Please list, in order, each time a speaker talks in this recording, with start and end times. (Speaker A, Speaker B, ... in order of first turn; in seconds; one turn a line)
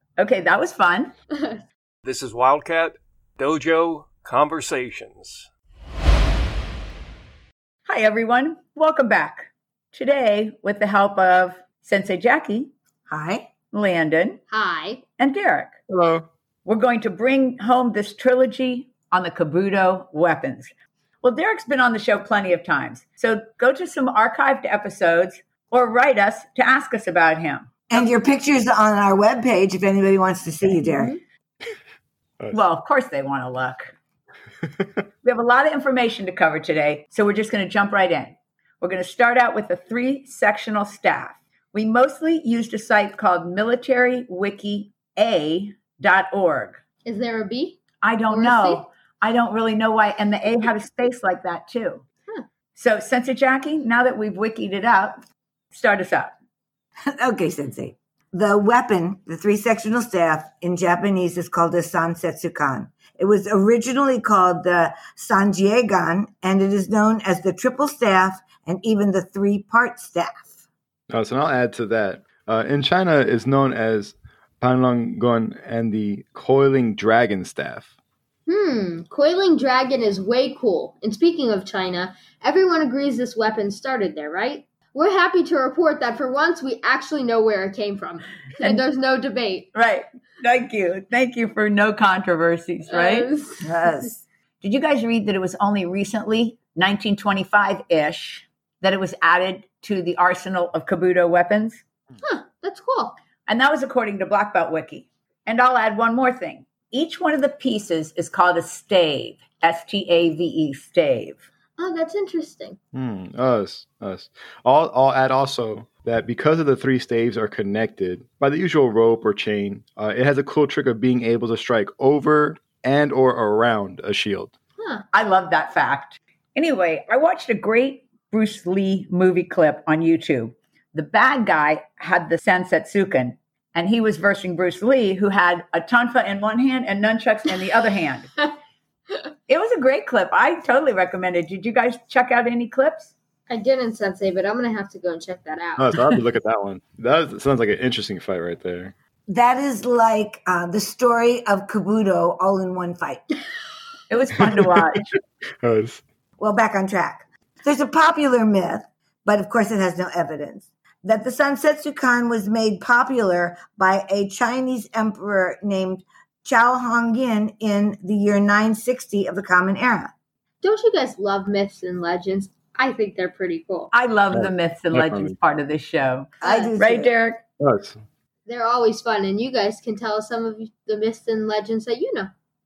Speaker A: 0.2-1.1
Speaker B: 1.3-1.6
Speaker C: 2.0-5.5
Speaker A: 7.8-12.7
Speaker D: 13.1-13.5
Speaker A: 13.7-14.4
Speaker B: 14.5-15.0
Speaker A: 15.2-15.7
Speaker E: 15.9-16.2
Speaker A: 16.6-20.7
Speaker A: 21.2-28.0
Speaker D: 27.9-31.1
Speaker B: 30.8-31.2
Speaker A: 32.5-33.9
Speaker A: 35.2-46.8
Speaker B: 47.0-47.8
Speaker A: 48.0-52.0
Speaker B: 48.3-48.9
Speaker A: 52.7-56.3
Speaker D: 57.2-70.6
Speaker E: 71.1-77.9
Speaker B: 78.5-89.7
Speaker A: 89.7-93.3
Speaker B: 92.9-94.1
Speaker D: 93.6-94.2
Speaker A: 94.6-101.8
Speaker B: 102.2-103.2
Speaker A: 103.5-111.4
Speaker B: 111.8-112.8
Speaker E: 112.9-124.5
Speaker B: 124.8-125.0
Speaker A: 125.1-138.3
Speaker A: 139.5-143.1
Speaker B: 143.5-146.1
Speaker E: 145.8-148.9
Speaker D: 149.3-153.2
Speaker A: 154.1-155.1
Speaker E: 155.6-156.0
Speaker D: 156.4-170.1
Speaker B: 170.6-173.9
Speaker A: 173.9-177.4
Speaker E: 174.3-175.3
Speaker D: 176.4-177.1
Speaker B: 176.4-176.7
Speaker E: 177.6-178.0
Speaker B: 178.4-182.3